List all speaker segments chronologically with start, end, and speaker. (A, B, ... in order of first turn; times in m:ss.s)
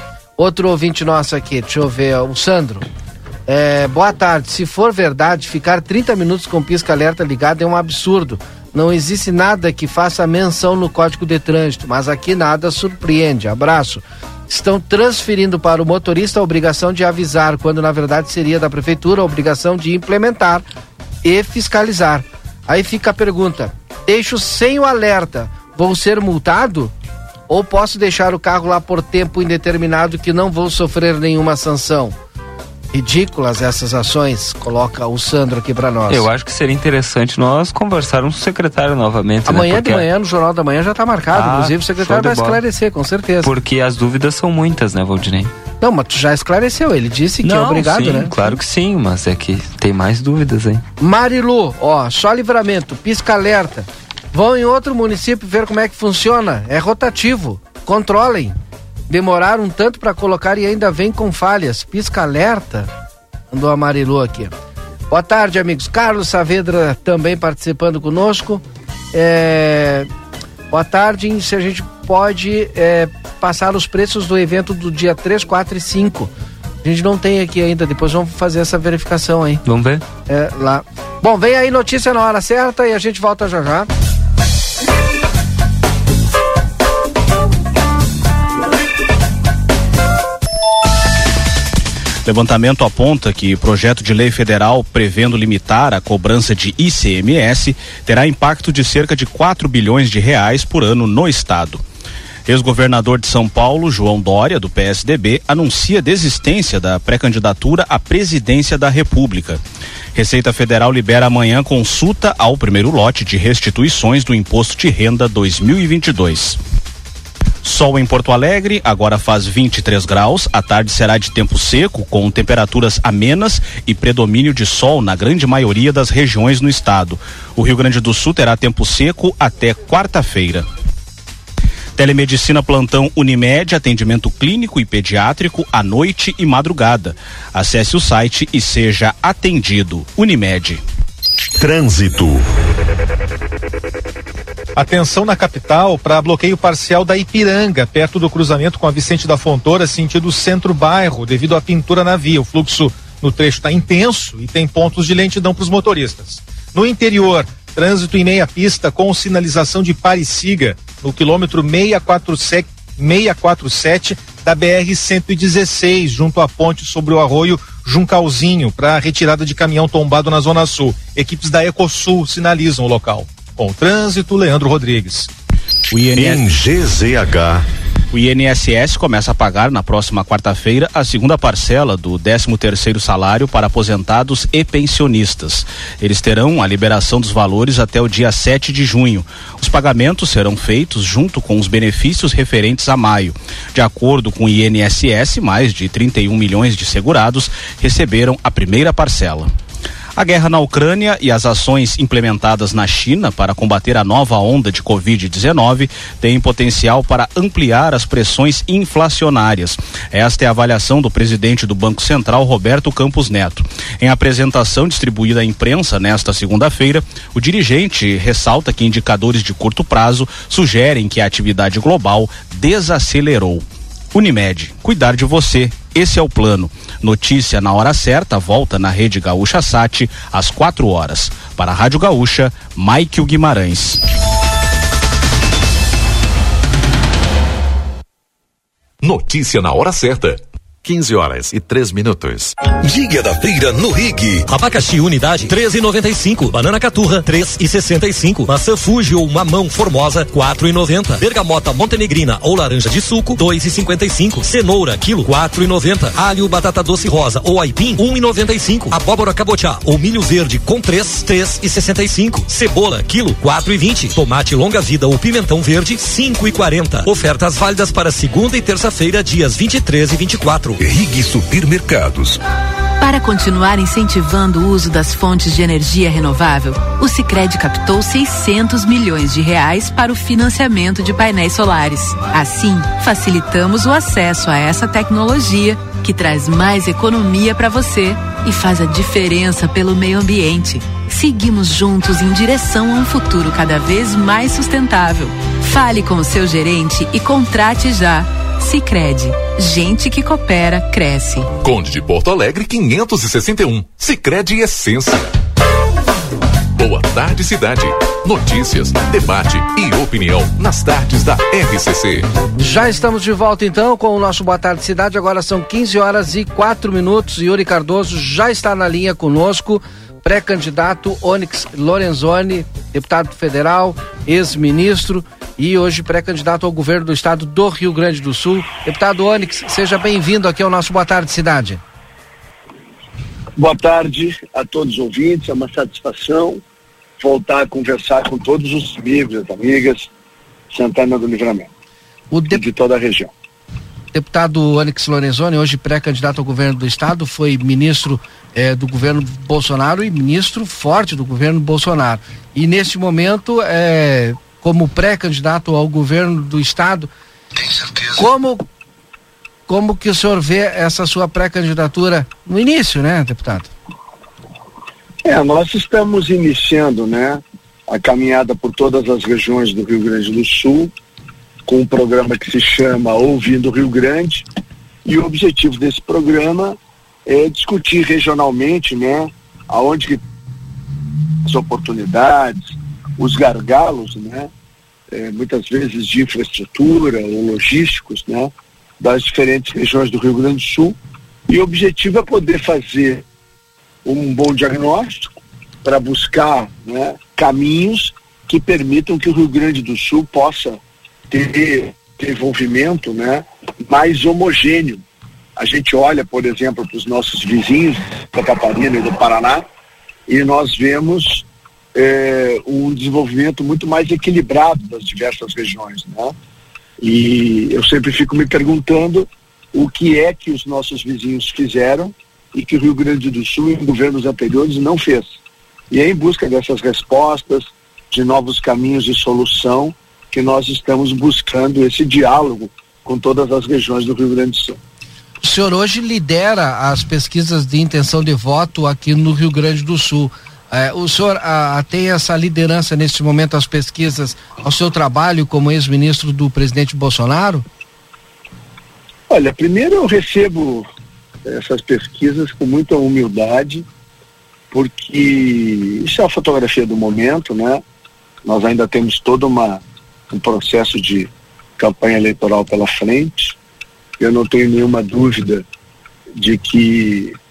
0:00.4-0:02.8 A
0:03.5-0:20.6 A
0:21.2-0:26.9 A
0:27.5-0:32.1 A
0:32.9-0:36.2 A
0:36.1-0:40.0 B
0:39.5-0:43.5 A
0:41.3-0:42.6 B
0:43.4-0:45.5 B
0:45.8-0:48.6 A
0:47.4-0:50.8 B
0:51.0-0:58.6 A
0:59.1-1:02.9 A
1:03.5-1:04.5 A
1:05.1-1:10.1 A
1:10.7-1:16.3 A
1:16.8-1:19.6 A
1:19.6-1:20.0 B
1:20.3-1:23.9 A
1:32.2-1:41.8 C
1:42.5-1:49.6 C
1:50.1-1:56.6 C
1:57.6-2:10.6 C
2:12.0-2:20.8 C
2:24.8-2:55.3 D
2:55.9-2:56.5 C
2:58.1-3:19.5 C
3:20.2-3:54.0 C
3:59.0-4:04.4 E
4:04.5-4:30.8 F
4:30.8-4:32.4 E
4:33.0-5:01.5 G
5:01.6-5:05.3 E
5:06.8-5:12.3 E
5:12.6-5:31.8 A
5:33.6-5:36.6 H
5:37.2-5:40.1 H
5:40.7-5:41.7 H
5:42.3-5:42.6 A
5:42.5-5:43.3 H
5:44.1-5:57.1 A
5:58.0-5:58.6 A
5:59.7-6:03.7 A
6:05.2-6:10.9 H
6:11.6-6:14.4 H
6:15.0-6:20.2 H
6:21.4-6:24.5 H
6:25.1-6:31.0 H
6:31.5-6:33.2 H
6:34.0-6:40.8 H
6:41.3-6:45.0 H
6:45.6-6:49.6 H
6:50.3-6:56.3 H
6:57.0-7:05.3 H
7:05.9-7:14.8 H
7:15.4-7:27.6 A
7:29.3-7:30.8 H
7:31.4-7:33.8 H
7:34.7-7:37.8 H
7:38.4-7:43.6 H
7:44.2-7:45.6 H
7:46.4-7:47.4 H